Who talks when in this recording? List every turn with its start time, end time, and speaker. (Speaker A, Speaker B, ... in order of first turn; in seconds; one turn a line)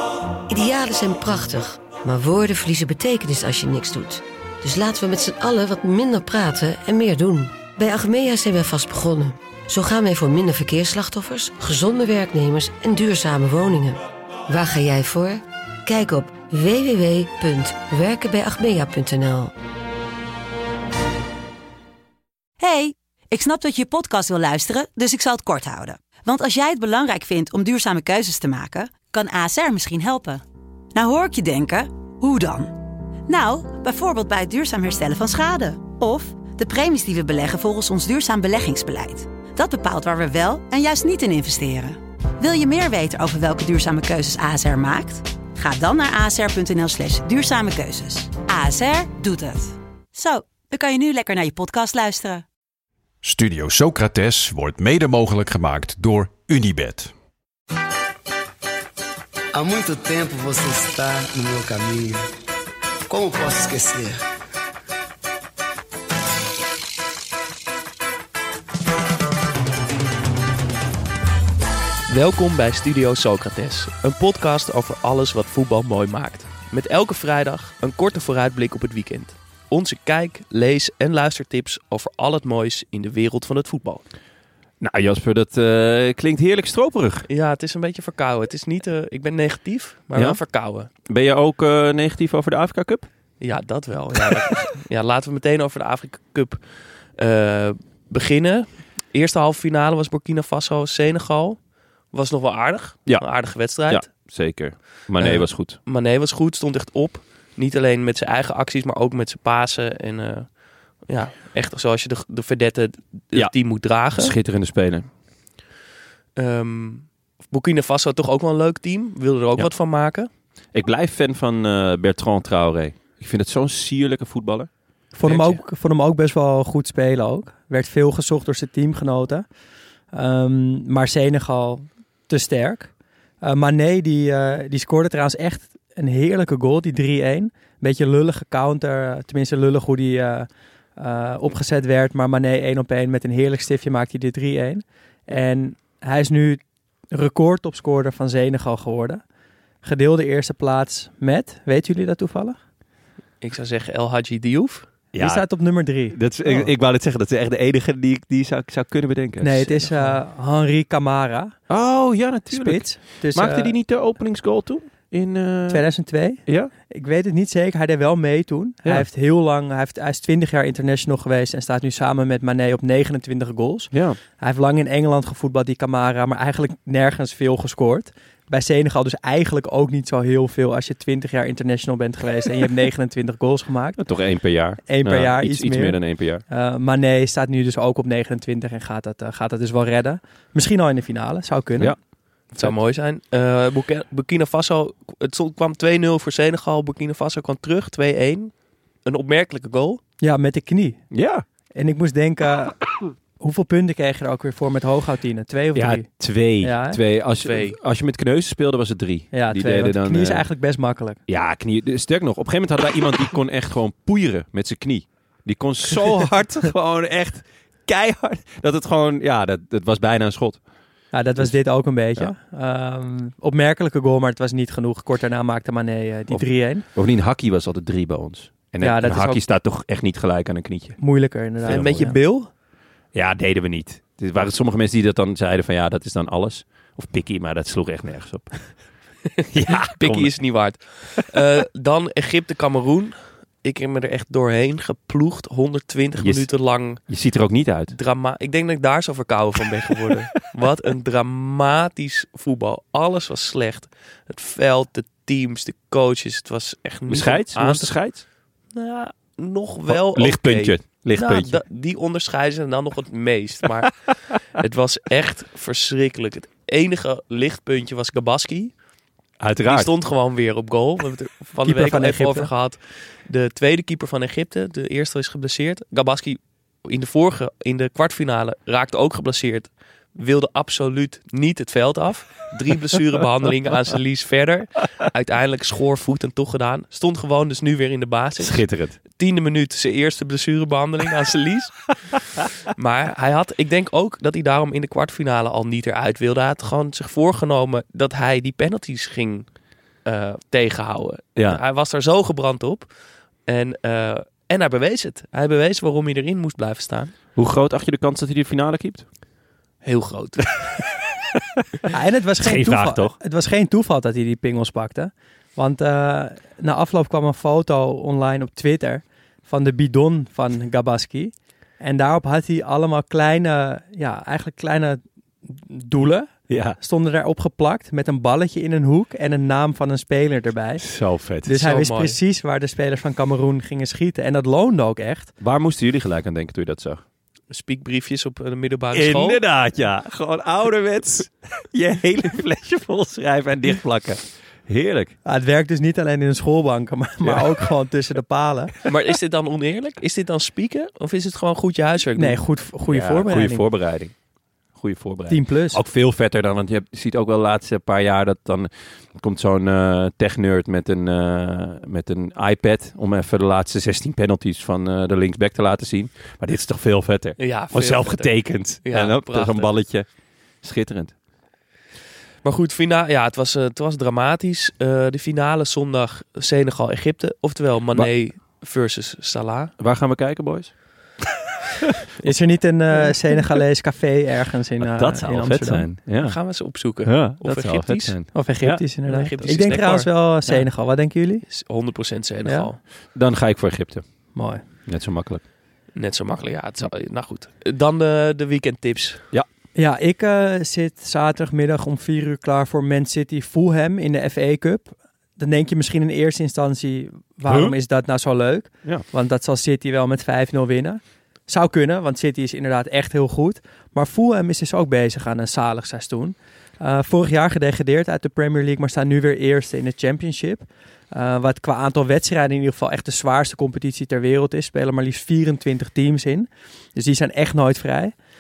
Speaker A: 0.5-19.5
Speaker B: 22.6-30.4
Speaker B: 30.9-32.7
Speaker B: 33.3-52.4
Speaker C: 53.2-57.1
Speaker D: 59.5-62.2
Speaker D: 63.1-64.2
Speaker E: 72.1-84.0
Speaker F: 84.8-87.2
Speaker E: 87.3-90.9
Speaker F: 91.0-93.1
Speaker E: 93.4-104.6
Speaker F: 103.0-105.8
Speaker E: 105.2-114.3
Speaker F: 113.3-115.1
Speaker E: 116.3-120.3
Speaker F: 120.7-124.7
Speaker G: 125.1-129.5
Speaker F: 125.2-125.5
Speaker E: 125.3-125.6
Speaker G: 130.1-149.2
Speaker G: 149.8-152.6
Speaker E: 153.4-154.9
Speaker F: 155.1-160.2
Speaker G: 155.2-156.7
Speaker G: 159.4-161.6
Speaker F: 161.7-166.7
Speaker G: 162.5-163.8
Speaker G: 165.7-184.0
Speaker F: 173.9-174.2
Speaker F: 184.0-186.4
Speaker G: 184.8-191.9
Speaker E: 192.5-200.0
Speaker G: 200.2-201.0
Speaker F: 201.1-201.4
Speaker G: 201.7-207.0
Speaker F: 205.7-210.4
Speaker E: 207.4-207.8
Speaker G: 209.3-211.2
Speaker F: 211.3-220.7
Speaker G: 221.1-226.8
Speaker F: 221.2-222.3
Speaker F: 226.3-232.1
Speaker G: 228.8-229.4
Speaker G: 231.0-232.1
Speaker E: 231.7-232.5
Speaker F: 233.1-240.7
Speaker E: 239.9-247.3
Speaker F: 246.2-247.9
Speaker E: 247.9-258.2
Speaker F: 257.1-258.2
Speaker E: 258.7-268.7
Speaker F: 259.9-261.6
Speaker F: 269.4-269.9
Speaker E: 269.6-307.1
Speaker G: 271.6-272.5
Speaker F: 288.4-289.0
Speaker F: 301.4-301.6
Speaker F: 307.3-309.1
Speaker E: 309.8-310.6
Speaker G: 311.9-330.8
Speaker F: 312.4-313.1
Speaker F: 326.5-326.8
Speaker F: 330.8-331.7
Speaker G: 331.4-335.3
Speaker E: 331.6-332.2
Speaker F: 335.4-337.0
Speaker E: 337.5-339.4
Speaker F: 338.9-345.1
Speaker G: 345.2-348.8
Speaker F: 347.2-347.5
Speaker E: 348.9-352.4
Speaker G: 352.1-353.7
Speaker F: 352.9-354.1
Speaker F: 354.7-371.1
Speaker G: 355.3-355.8
Speaker E: 367.4-369.7
Speaker E: 372.4-379.7
Speaker F: 379.8-381.1
Speaker G: 382.2-385.9
Speaker F: 384.8-388.8
Speaker E: 386.2-388.1
Speaker G: 388.3-391.4
Speaker E: 389.0-390.5
Speaker E: 391.4-392.8
Speaker G: 392.4-392.7
Speaker F: 393.1-395.4
Speaker G: 394.3-394.6
Speaker E: 395.9-399.2
Speaker G: 399.7-428.1
Speaker F: 407.4-407.8